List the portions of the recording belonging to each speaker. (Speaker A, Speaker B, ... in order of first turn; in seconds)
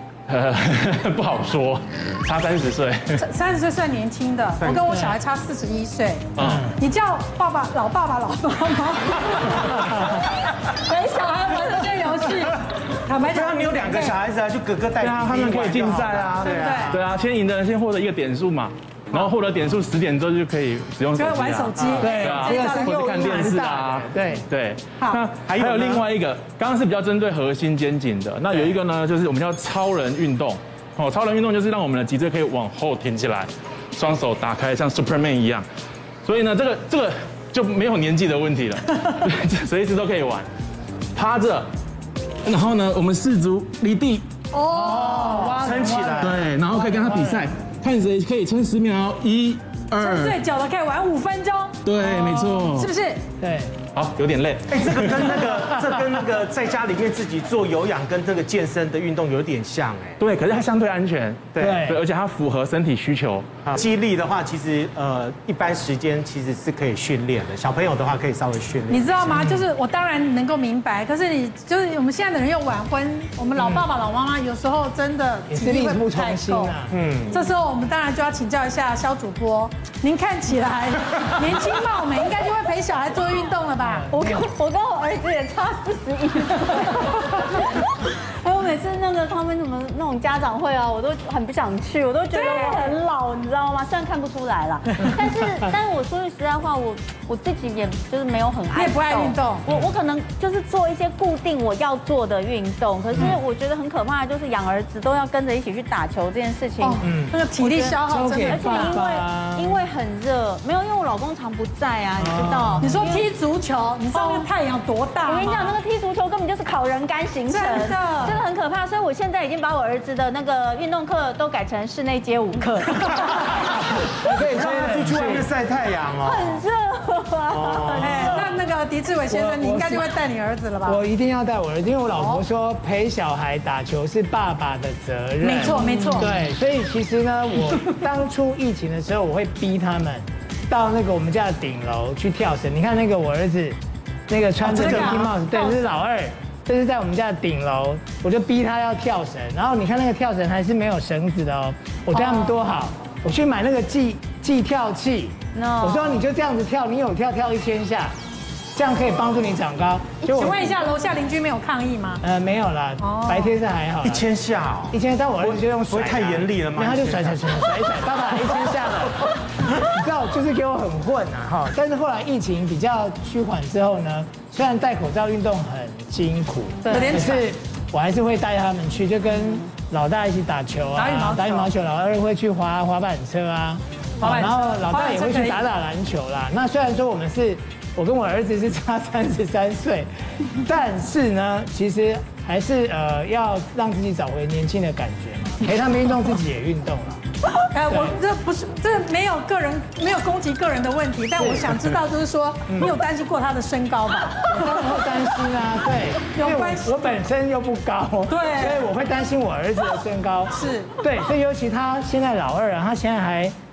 Speaker A: 0.3-3.2, 6.4-6.7, 15.0-35.7, 36.2-40.5, 41.1-41.7, 42.4-44.3, 46.2-50.4, 51.8-52.9, 53.9-55.7, 60.2-63.5
Speaker B: 3.2-14.2, 16.4-17.0, 21.2-23.5, 44.5-45.5, 49.9-53.2, 68.9-76.7, 77.3-84.1, 92.3-92.9, 98.7-99.7, 106.8-109.0, 112.8-115.7, 117.5-118.4, 128.0-131.0, 132.2-132.4, 135.4-136.3, 144.6-145.9, 160.3-162.2, 163.0-163.6, 176.8-177.5, 180.9-181.7, 184.2-185.7, 197.4-205.0, 206.2-206.9, 208.3-208.9, 210.5-211.0
Speaker C: 4.6-5.0, 13.3-17.0, 21.8-22.1, 25.5-26.1, 45.1-46.4, 54.7-60.2, 63.7-69.3, 76.9-77.3, 124.3-126.6, 127.5-128.4, 144.7-145.3, 164.0-167.4
Speaker D: 6.4-6.8, 22.0-24.5, 44.7-47.5, 53.4-53.7, 61.6-62.0, 69.3-69.7, 73.6-73.9, 75.5-77.0, 83.8-84.5, 99.7-99.9, 107.0-107.4, 108.1-109.8, 112.2-112.9, 124.2-125.5, 129.3-130.1, 130.8-143.8, 144.3-158.1, 158.8-160.6, 162.2-164.2, 164.9-197.2, 197.9-198.2, 201.4-201.9, 202.7-202.9, 204.5-213.5
Speaker E: 84.1-107.0, 107.6-113.3, 114.1-114.5, 115.3-124.2, 126.2-128.5, 135.6-136.3, 155.5-156.2